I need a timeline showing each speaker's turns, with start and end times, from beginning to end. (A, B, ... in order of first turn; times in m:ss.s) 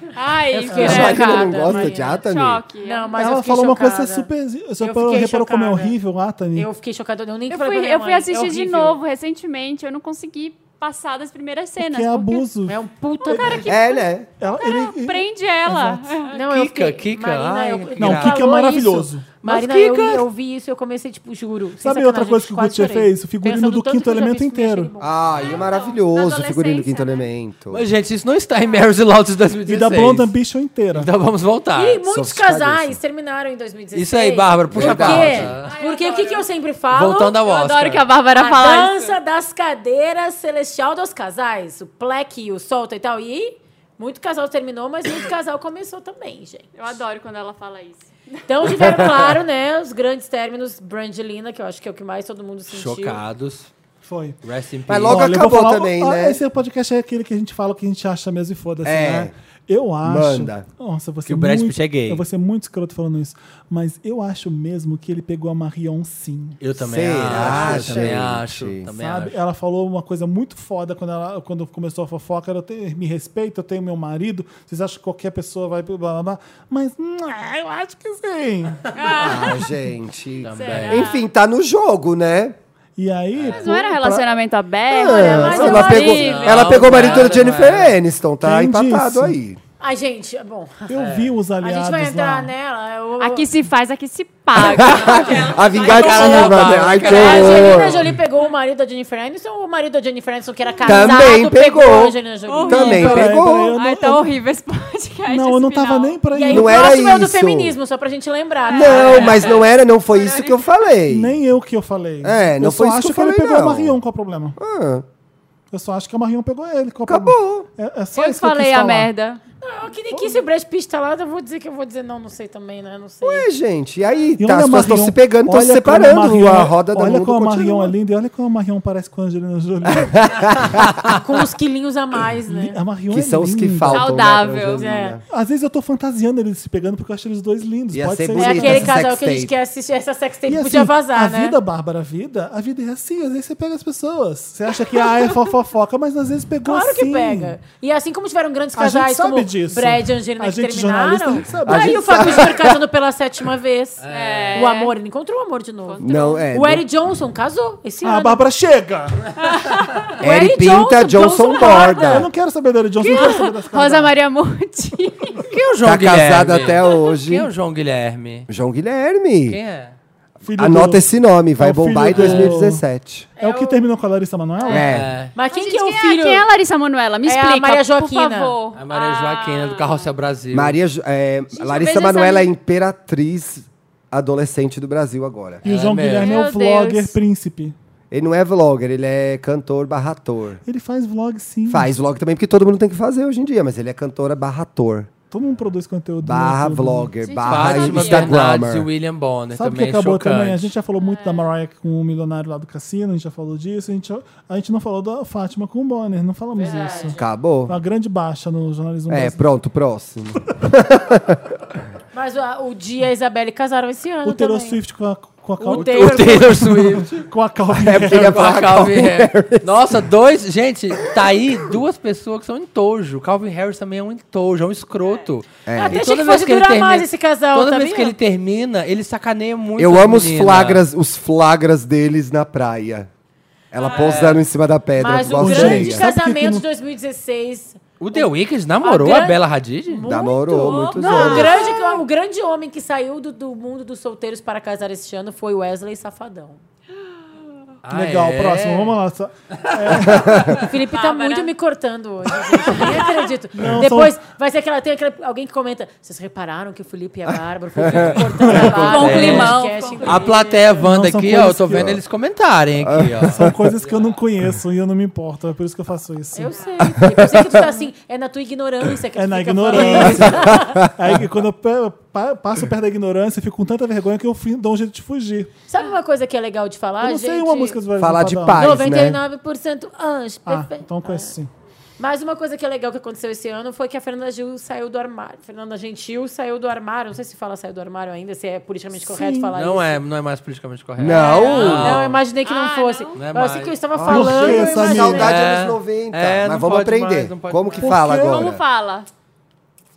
0:00.1-0:03.1 A
0:00.5-0:02.0 B
0:00.7-0:01.2 C
0:00.7-0:02.6 D
0:02.8-0:05.9 B
0:03.2-0:06.7 C
0:06.5-0:09.0 B
0:07.5-0:12.5 A
0:11.8-0:13.7 C
0:12.7-0:13.8 B
0:13.3-0:14.0 A
0:13.6-0:14.3 D
0:14.4-0:16.0 C
0:14.6-0:16.3 A
0:16.3-0:25.1 B
0:16.5-0:18.4 E
0:18.0-0:19.3 C
0:19.4-0:20.2 E
0:21.8-0:24.9 C
0:25.0-0:27.9 D
0:25.3-0:25.6 E
0:25.4-0:27.3 A
0:27.7-0:30.3 E
0:29.7-0:31.1 C
0:30.9-0:32.0 E
0:31.7-0:37.4 B
0:32.1-0:33.0 D
0:33.9-0:35.7 E
0:34.7-0:35.5 D
0:35.6-0:36.5 A
0:36.9-0:38.0 E
0:37.4-0:39.2 A
0:38.3-0:46.7 B
0:46.8-0:48.1 A
0:48.5-0:53.2 B
0:48.6-0:49.2 D
0:52.7-0:53.7 E
0:54.0-0:54.4 C
0:54.4-0:55.2 E
0:54.9-0:56.4 D
0:55.0-1:06.6 C
0:58.8-0:59.3 D
1:00.0-1:00.6 D
1:01.2-1:02.2 E
1:06.6-1:09.4 E
1:06.8-1:08.9 D
1:07.3-1:08.2 C
1:09.0-1:19.5 C
1:18.9-1:19.6 A
1:19.2-1:22.6 D
1:20.4-1:21.0 E
1:20.5-1:21.2 A
1:23.0-1:24.3 C
1:23.5-1:27.3 A
1:24.9-1:29.6 D
1:25.0-1:26.5 B
1:26.0-1:27.9 E
1:28.4-1:29.4 C
1:29.8-1:33.5 B
1:30.9-1:32.5 C
1:31.0-1:31.2 E
1:33.2-1:37.8 A
1:34.6-1:38.1 D
1:35.1-1:37.8 E
1:36.1-1:36.4 B
1:37.1-1:43.2 B
1:40.8-1:42.2 D
1:42.5-1:46.2 A
1:42.7-1:43.8 D
1:42.9-1:44.3 C
1:45.3-1:47.0 C
1:46.3-1:49.4 B
1:46.5-1:47.8 D
1:48.6-1:49.6 A
1:48.7-1:51.4 D
1:51.1-1:54.6 C
1:52.2-1:54.0 D
1:54.6-1:55.0 D
1:55.7-1:59.1 C
1:57.0-1:57.7 D
1:58.1-1:59.4 A
1:59.6-2:03.5 B
2:00.1-2:00.4 C
2:03.2-2:07.9 D
2:04.4-2:10.3 C
2:10.0-2:11.0 D
2:11.0-2:12.8 B
2:12.5-2:14.1 C
2:13.1-2:15.2 D
2:13.9-2:14.8 A
2:14.8-2:15.2 B
2:15.3-2:19.0 C
2:17.9-2:19.5 D
2:18.3-2:21.6 B
2:20.5-2:27.6 C
2:26.6-2:34.0 B
2:28.8-2:32.5 C
2:31.6-2:32.8 D
2:34.0-2:34.6 E
2:34.1-2:34.9 A
2:34.5-2:38.4 B
2:35.8-2:36.4 A
2:36.0-2:36.8 D
2:38.0-2:39.3 C
2:39.5-2:40.1 A
2:40.1-2:42.2 B
2:40.2-2:42.3 D
2:42.0-2:44.1 C
2:43.0-2:45.5 A
2:43.1-2:43.4 B
2:45.5-2:48.5 E
2:45.8-2:47.5 D
2:48.5-2:49.6 D
2:49.5-2:49.9 E
2:50.4-2:52.8 C
2:50.6-2:53.3 D
2:52.1-2:52.5 E
2:53.4-2:53.8 B
2:53.4-2:54.9 C
2:54.7-2:55.1 D
2:54.8-2:55.3 E
2:55.3-2:56.5 B
2:55.5-3:00.1 A
2:57.2-2:58.5 B
2:58.8-3:00.7 E
3:00.5-3:05.6 D
3:01.5-3:02.5 A
3:05.6-3:07.7 C
3:05.6-3:06.4 E
3:06.1-3:07.2 A
3:08.1-3:10.6 D
3:10.6-3:11.9 C
3:11.7-3:15.1 D
3:15.3-3:17.1 C
3:16.2-3:18.9 D
3:17.2-3:18.4 A
3:17.4-3:20.7 E
3:19.5-3:29.4 C
3:21.0-3:21.5 A
3:26.8-3:27.0 B
3:27.1-3:27.8 D
3:29.1-3:31.4 D
3:32.1-3:34.8 B
3:34.2-3:38.6 C
3:35.6-3:36.6 B
3:35.7-3:37.3 E
3:37.7-3:40.0 D
3:38.1-3:50.8 E
3:45.6-3:46.0 D
3:45.7-3:48.1 B
3:49.8-3:53.1 D
3:53.7-3:56.0 D
3:53.8-3:54.2 A
3:53.9-3:54.4 E
3:55.0-4:06.6 B
3:55.4-3:56.6 C
3:58.0-4:00.1 E
4:00.0-4:01.6 D
4:00.5-4:02.0 A
4:07.8-4:09.0 E
4:07.9-4:10.6 C
4:10.1-4:10.6 D
4:10.6-4:20.7 B
4:10.8-4:11.5 A
4:12.7-4:13.1 A
4:13.5-4:14.2 C
4:17.8-4:19.3 D
4:18.4-4:18.9 C
4:18.5-4:20.6 A
4:18.8-4:24.1 E
4:20.8-4:21.9 C
4:21.7-4:22.0 D
4:22.8-4:23.5 D
4:23.3-4:26.5 C
4:26.3-4:30.8 B
4:26.5-4:26.8 A
4:26.9-4:27.5 D
4:29.2-4:35.5 C
4:29.7-4:30.1 E
4:30.0-4:31.2 D
4:35.7-4:37.8 B
4:37.0-4:38.8 C
4:38.0-4:39.2 D
4:38.5-4:41.3 B
4:40.5-4:41.5 C
4:42.0-4:50.0 B
4:49.0-4:49.5 C
4:49.5-4:52.2 E
4:51.0-4:52.0 D
4:51.1-4:53.2 A
4:51.1-4:55.3 B
4:53.2-4:53.8 E
4:53.9-4:58.6 D
4:54.0-4:55.3 C
4:55.2-4:57.9 E
4:57.8-4:58.5 C
4:58.0-4:59.1 A